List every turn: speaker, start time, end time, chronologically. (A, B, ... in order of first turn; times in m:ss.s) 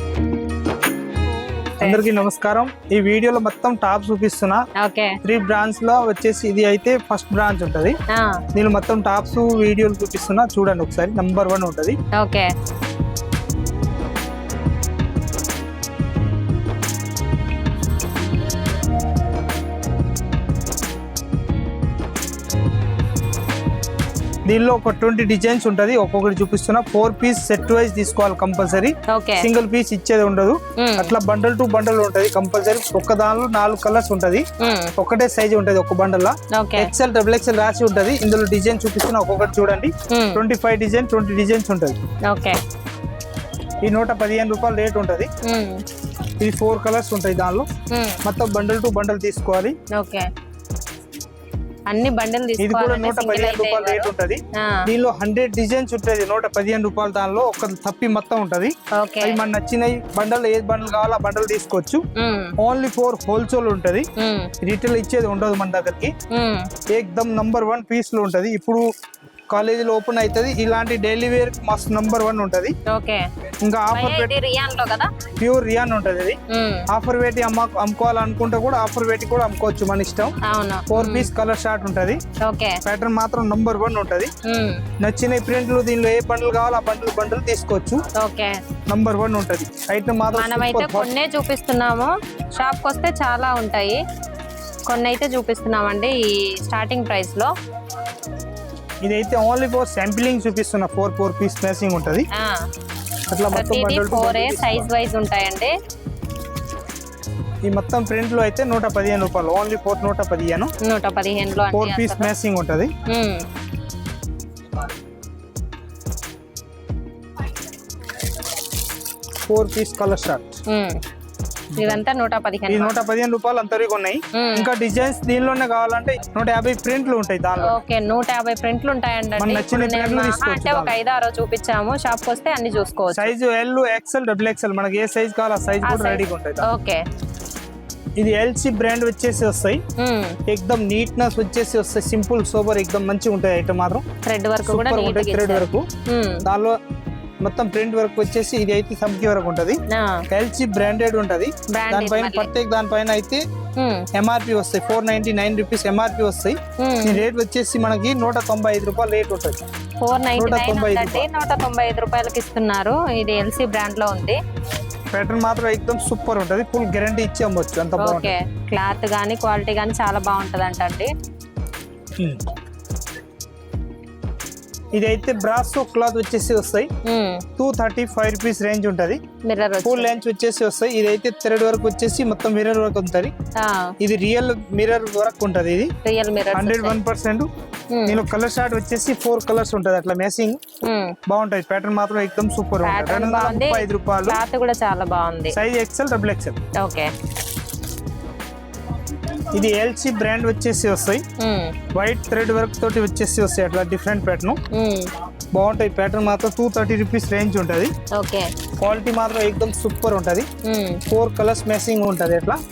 0:01.8-0:04.6 A
0:04.8-0:05.2 B
0:05.2-0:07.9 A
0:08.1-0:08.4 B
0:08.5-0:12.0 A
0:12.1-0:12.5 B
0:24.5-0:34.4 A
0:29.1-0:29.5 B
0:30.8-0:31.1 B
0:34.6-0:34.9 B
0:35.0-0:42.0 A
0:36.6-0:36.9 B
0:40.1-0:40.4 B
0:42.3-0:42.6 B
0:43.8-0:45.3 A
0:45.4-0:45.8 B
0:46.4-0:47.6 A
0:47.9-0:48.2 B
0:48.2-0:49.7 A
0:49.9-0:50.3 B
0:51.9-0:54.9 B
0:52.6-1:02.0 A
0:59.0-0:59.4 B
1:02.2-1:02.5 B
1:02.6-1:04.0 A
1:04.2-1:04.5 B
1:04.6-1:06.1 A
1:06.3-1:06.7 B
1:06.9-1:08.8 A
1:09.5-1:12.7 A
1:12.9-1:13.2 B
1:13.6-1:14.3 A
1:13.9-1:15.1 B
1:15.4-1:16.4 A
1:16.5-1:16.9 B
1:16.9-1:20.3 A
1:20.4-1:21.3 B
1:20.9-1:22.2 A
1:22.4-1:22.8 B
1:22.8-1:24.3 A
1:24.4-1:24.8 B
1:25.0-1:28.0 A
1:28.2-1:28.6 B
1:28.9-1:31.1 A
1:30.3-1:34.0 B
1:34.9-1:37.5 B
1:39.0-1:42.3 A
1:43.3-1:44.9 A
1:43.5-1:45.7 B
1:47.6-1:50.7 A
1:50.8-1:52.3 B
1:51.7-1:52.9 A
1:53.1-1:53.4 B
1:59.5-2:00.5 A
2:00.7-2:01.0 B
2:01.7-2:02.0 A
2:01.8-2:03.0 B
2:02.7-2:07.8 A
2:04.3-2:04.7 B
2:07.6-2:13.3 B
2:09.4-2:10.9 A
2:13.1-2:16.7 A
2:15.8-2:17.0 B
2:18.2-2:19.8 A
2:20.0-2:20.4 B
2:20.5-2:24.0 A
2:24.2-2:26.4 B
2:24.6-2:25.9 A
2:26.4-2:26.8 A
2:27.4-2:33.4 A
2:29.9-2:30.2 B
2:31.7-2:32.5 B
2:33.8-2:34.1 B
2:34.1-2:39.6 A
2:36.8-2:37.3 B
2:40.0-2:44.4 B
2:40.4-2:41.2 A
2:45.1-2:48.3 A
2:48.0-2:51.1 B
2:52.2-2:52.5 A
2:54.9-2:56.9 A
2:57.0-2:57.4 B
2:57.6-2:59.2 A
2:59.4-3:00.2 B
2:59.8-3:03.3 A
3:03.6-3:03.9 B
3:04.0-3:05.9 A
3:06.0-3:07.0 B
3:06.5-3:07.5 A
3:07.9-3:08.2 B
3:08.1-3:10.6 A
3:10.8-3:11.2 B
3:11.3-3:14.4 A
3:12.8-3:15.6 B
3:15.5-3:16.6 A
3:16.8-3:17.1 B
3:19.3-3:21.2 A
3:21.4-3:21.8 B
3:21.9-3:24.6 A
3:24.7-3:25.1 B
3:25.5-3:27.9 A
3:28.1-3:28.5 B
3:28.8-3:30.5 A
3:30.6-3:31.0 B
3:31.1-3:32.6 A